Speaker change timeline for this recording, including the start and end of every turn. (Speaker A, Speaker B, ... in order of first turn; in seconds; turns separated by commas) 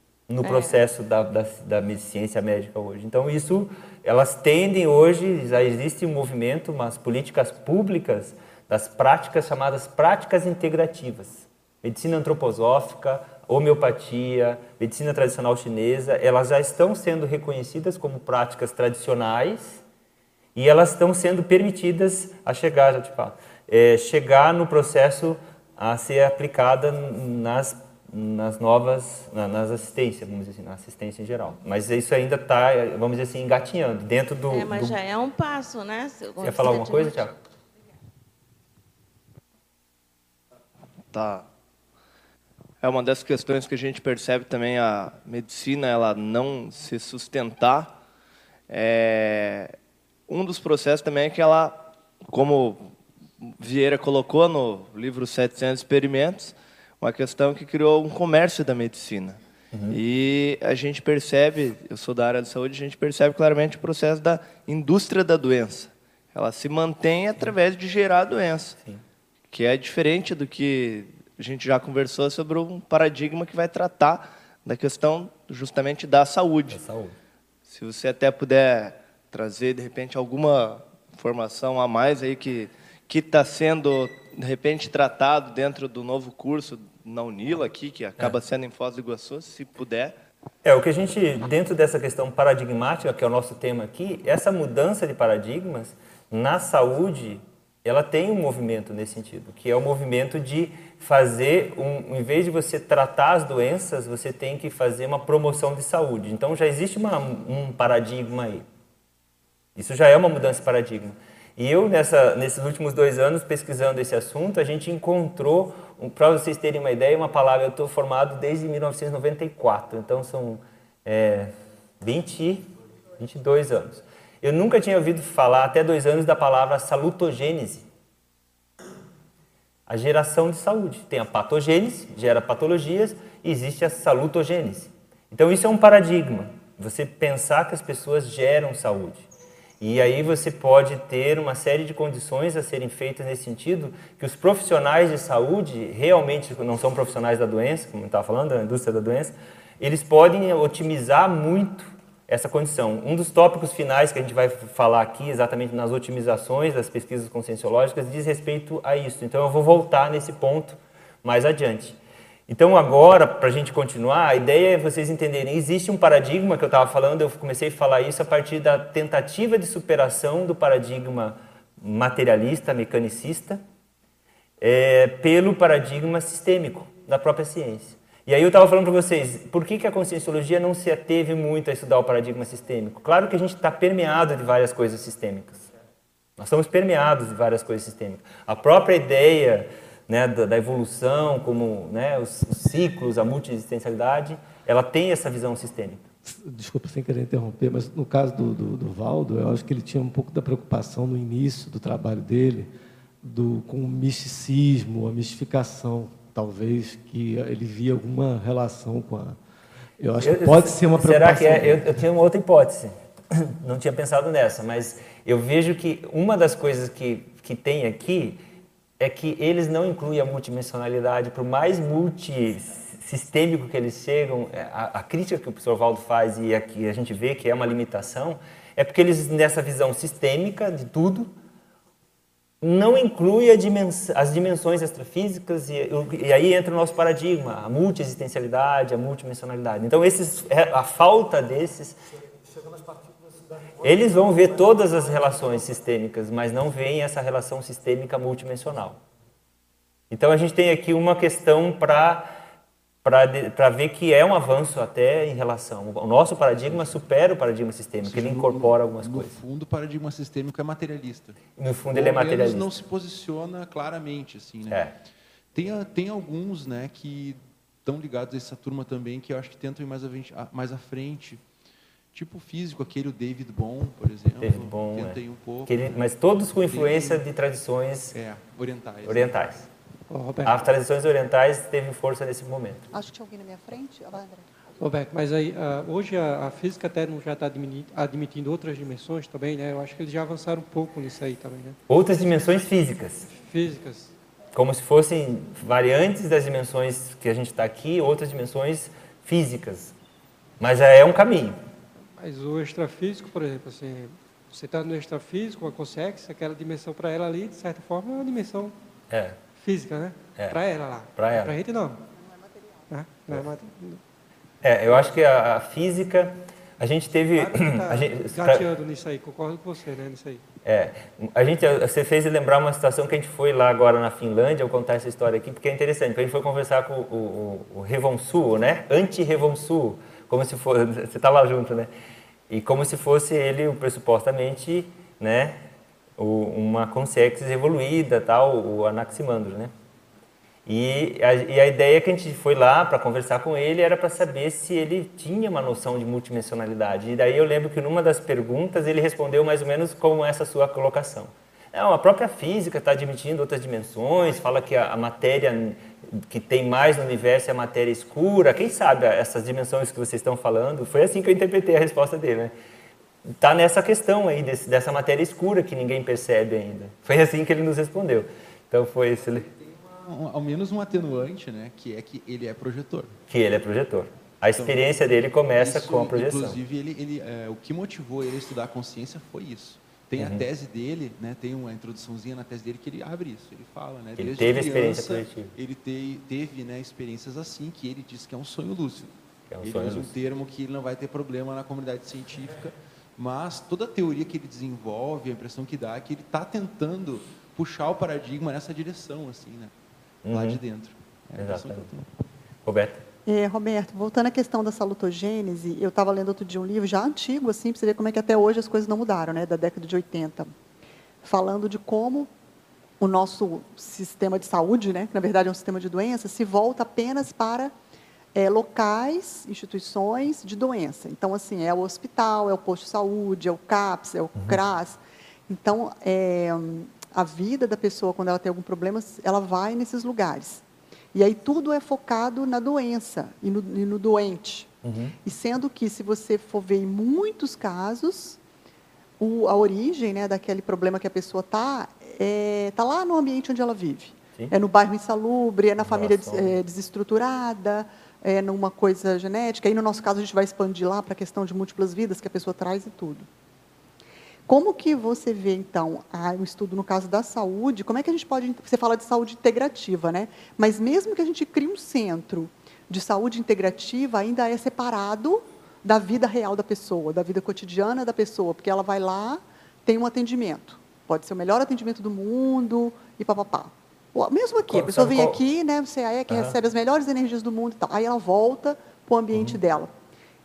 Speaker A: 0.3-19.8, Speaker B: 0.4-0.8, Speaker A: 20.5-35.0, Speaker B: 34.5-37.3, Speaker A: 36.4-37.3, Speaker C: 41.1-41.5, Speaker C: 42.8-48.0, Speaker C: 48.7-49.7, Speaker C: 50.3-52.9, Speaker C: 53.4-68.8, Speaker A: 59.7-60.0, Speaker C: 69.5-76.8, Speaker A: 76.7-77.1, Speaker C: 77.7-90.1, Speaker A: 90.6-108.6, Speaker A: 109.8-127.8, Speaker A: 129.9-139.3, Speaker A: 139.8-162.0, Speaker A: 162.5-173.6, Speaker A: 174.6-185.7, Speaker A: 186.4-196.0, Speaker D: 196.2-202.7, Speaker D: 203.2-209.4, Speaker D: 210.0-211.9, Speaker A: 210.2-218.4, Speaker A: 219.0-231.3, Speaker A: 232.6-242.0, Speaker A: 243.8-249.0, Speaker A: 250.1-252.3, Speaker A: 253.0-259.3, Speaker E: 258.0-264.8, Speaker A: 261.6-262.7, Speaker A: 264.7-264.9, Speaker E: 265.5-271.4, Speaker E: 272.1-275.7, Speaker A: 274.4-278.1, Speaker E: 276.6-277.2, Speaker E: 278.1-279.4, Speaker A: 279.1-279.7, Speaker F: 280.1-280.6, Speaker A: 280.4-282.8, Speaker G: 282.9-284.4, Speaker F: 284.8-291.8, Speaker A: 291.9-293.3, Speaker F: 293.3-294.1, Speaker A: 294.5-299.9, Speaker A: 300.6-301.6, Speaker F: 302.2-308.7, Speaker A: 309.1-309.4, Speaker F: 309.6-312.0, Speaker A: 311.1-311.5, Speaker G: 312.3-312.8, Speaker F: 312.9-314.0, Speaker A: 314.6-318.7, Speaker F: 317.4-320.4, Speaker A: 320.6-331.9, Speaker A: 332.5-335.6, Speaker A: 336.2-339.7, Speaker A: 340.6-362.5, Speaker A: 363.4-369.4, Speaker E: 370.0-373.2, Speaker A: 373.3-376.6, Speaker E: 374.6-374.8, Speaker E: 375.6-399.7, Speaker A: 380.2-380.4, Speaker A: 384.2-385.5, Speaker A: 389.5-390.1, Speaker A: 400.2-400.6, Speaker E: 400.3-402.1, Speaker A: 401.4-401.9, Speaker A: 402.6-403.0, Speaker G: 403.2-410.5, Speaker G: 411.2-412.3, Speaker G: 413.0-417.7, Speaker G: 418.3-434.7, Speaker A: 434.8-435.1, Speaker G: 435.2-438.4, Speaker G: 439.2-453.3, Speaker A: 445.8-446.6, Speaker G: 454.5-479.9, Speaker A: 474.7-475.4, Speaker A: 476.3-476.6